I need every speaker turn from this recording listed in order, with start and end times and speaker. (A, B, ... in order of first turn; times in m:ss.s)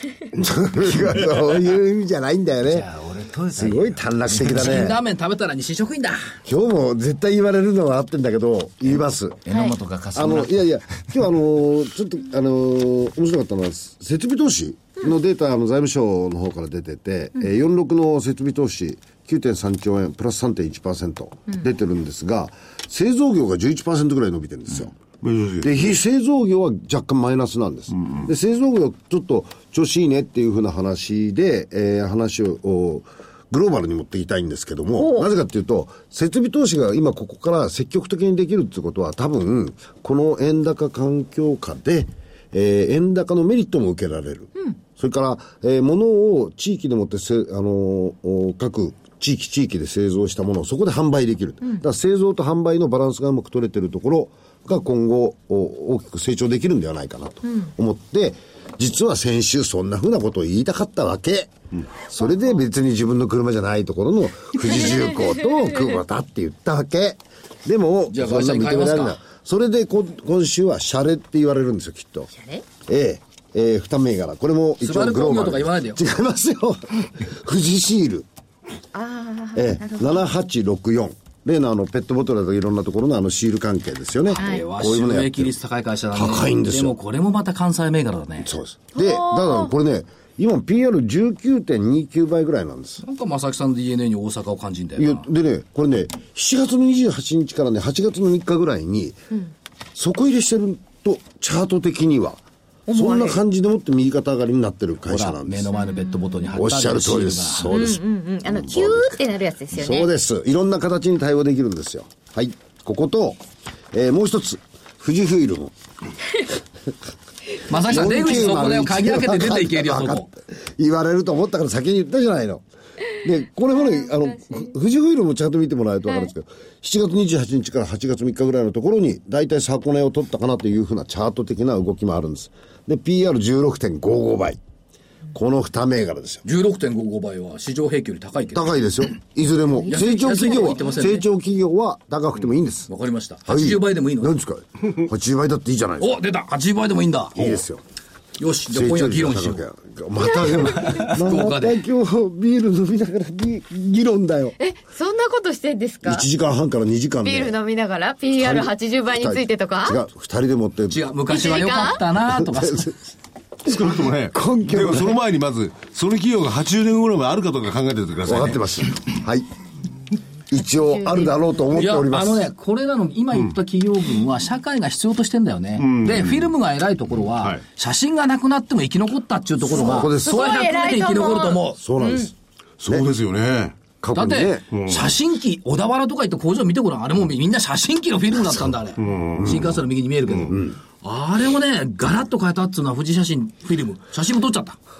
0:00.3-0:02.9 A
0:02.6-0:04.8 B
0:03.5-0:05.0 A
0:04.4-0:06.3 C
0:06.4-0:09.4 A
0:09.4-0:11.1 B
0:09.5-0:09.7 D
0:10.1-0:25.0 A
0:25.2-0:25.9 E
0:25.6-1:01.5 A
0:35.0-0:35.3 D
1:02.1-1:12.3 A
1:04.7-1:05.2 D
1:08.1-1:09.2 C
1:12.3-1:12.6 D
1:12.8-1:18.3 A
1:14.8-1:16.0 C
1:18.9-1:20.3 D
1:19.6-1:25.5 A
1:24.3-1:28.5 C
1:24.4-1:24.6 D
1:26.1-1:27.0 A
1:28.4-1:33.0 A
1:28.9-1:29.7 D
1:33.0-1:35.3 C
1:35.0-1:39.2 A
1:39.9-1:45.8 A
1:42.9-1:43.4 D
1:45.0-1:47.7 C
1:45.8-1:46.6 D
1:46.5-1:48.0 A
1:47.6-1:50.1 D
1:48.7-1:49.2 A
1:49.7-1:55.7 A
1:57.6-2:00.3 C
1:57.7-2:14.6 A
2:15.3-2:16.4 A
2:16.4-2:18.8 C
2:18.5-2:22.9 A
2:19.8-2:21.3 C
2:22.9-2:24.4 C
2:23.4-2:26.2 A
2:26.0-2:27.6 C
2:27.3-2:27.8 A
2:28.4-2:29.6 C
2:28.7-2:34.6 A
2:30.3-2:31.0 D
2:31.1-2:31.8 C
2:34.6-2:36.3 D
2:36.0-2:37.6 A
2:37.2-2:40.0 D
2:38.4-2:41.1 A
2:40.9-2:42.9 C
2:41.3-2:42.0 D
2:42.1-2:43.0 A
2:43.7-2:45.2 A
2:43.7-2:48.6 E
2:48.2-2:49.5 A
2:50.5-2:51.4 D
2:50.5-2:52.5 A
2:51.7-3:01.8 C
2:55.8-2:56.5 E
2:57.3-2:57.6 E
2:59.6-3:00.6 A
2:59.7-3:02.3 D
3:01.8-3:02.3 A
3:02.8-3:03.8 E
3:04.0-3:04.6 A
3:04.1-3:14.8 C
3:04.7-3:05.1 E
3:09.0-3:09.5 E
3:09.4-3:09.7 A
3:10.4-3:10.8 A